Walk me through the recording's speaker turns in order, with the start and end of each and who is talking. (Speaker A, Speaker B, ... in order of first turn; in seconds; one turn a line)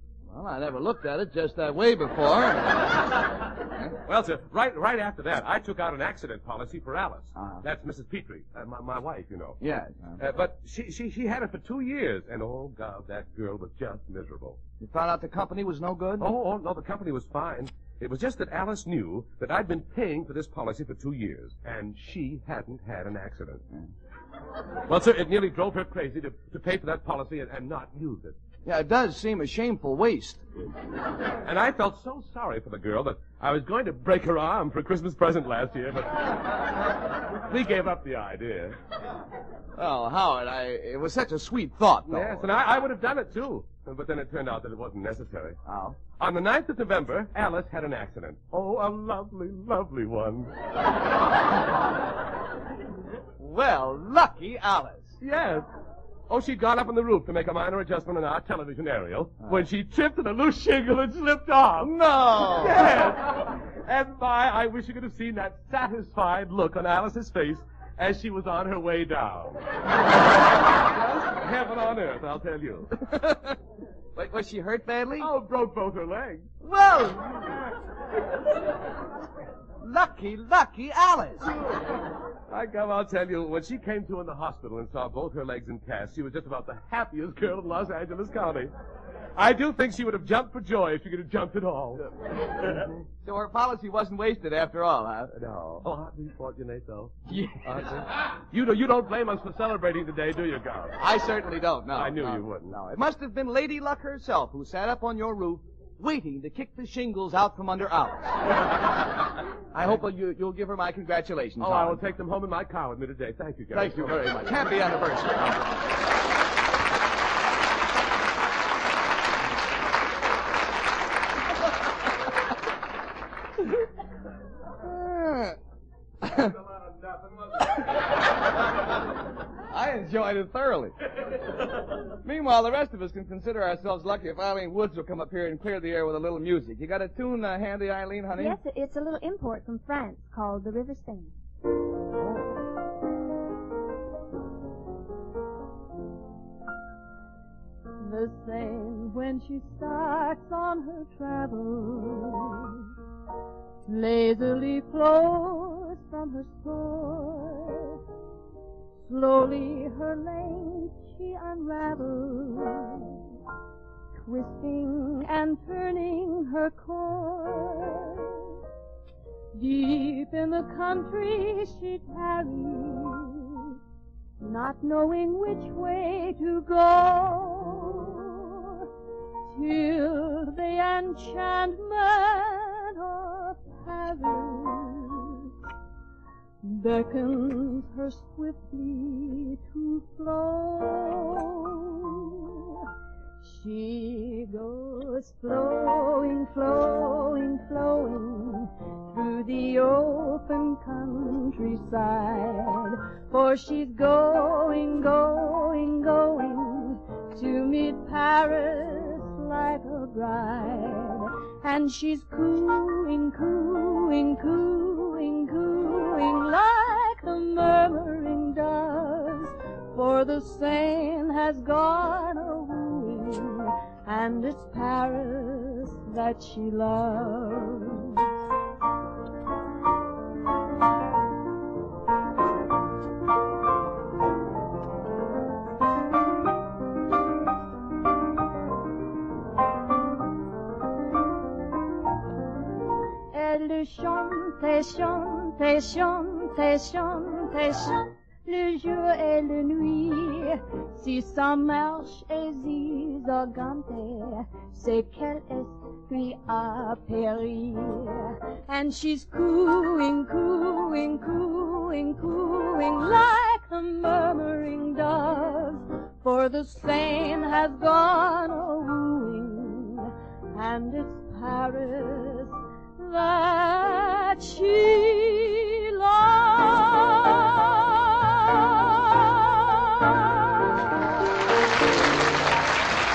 Speaker A: 0.3-3.0
Speaker B: 4.0-9.6
Speaker A: 7.3-7.6
Speaker A: 9.6-10.1
Speaker B: 10.2-14.6
Speaker A: 14.8-16.3
Speaker B: 16.2-23.6
Speaker B: 24.9-28.4
Speaker A: 28.6-30.5
Speaker B: 31.4-38.8
Speaker A: 39.8-42.5
Speaker B: 42.1-45.6
Speaker A: 45.6-46.0
Speaker B: 46.2-50.5
Speaker A: 53.4-55.2
Speaker B: 55.2-55.6
Speaker B: 56.3-69.7
Speaker A: 59.4-59.6
Speaker A: 61.8-62.8
Speaker B: 70.7-73.0
Speaker A: 74.2-75.3
Speaker B: 75.2-76.5
Speaker A: 76.6-77.5
Speaker A: 79.8-81.5
Speaker B: 82.5-88.7
Speaker B: 89.3-92.1
Speaker A: 93.2-95.4
Speaker B: 95.3-101.0
Speaker A: 97.3-97.6
Speaker A: 101.0-108.5
Speaker B: 101.9-102.7
Speaker A: 109.7-112.1
Speaker B: 111.6-114.7
Speaker A: 113.7-115.7
Speaker A: 124.8-125.6
Speaker A: 126.2-126.6
Speaker A: 129.7-130.9
Speaker A: 132.2-138.6
Speaker C: 138.3-141.3
Speaker D: 148.0-152.8
Speaker D: 153.8-158.0
Speaker D: 159.0-163.2
Speaker D: 164.2-168.4
Speaker D: 169.5-173.8
Speaker D: 174.4-178.9
Speaker D: 179.5-185.5
Speaker D: 186.6-192.8
Speaker D: 193.4-228.3
Speaker D: 243.3-280.3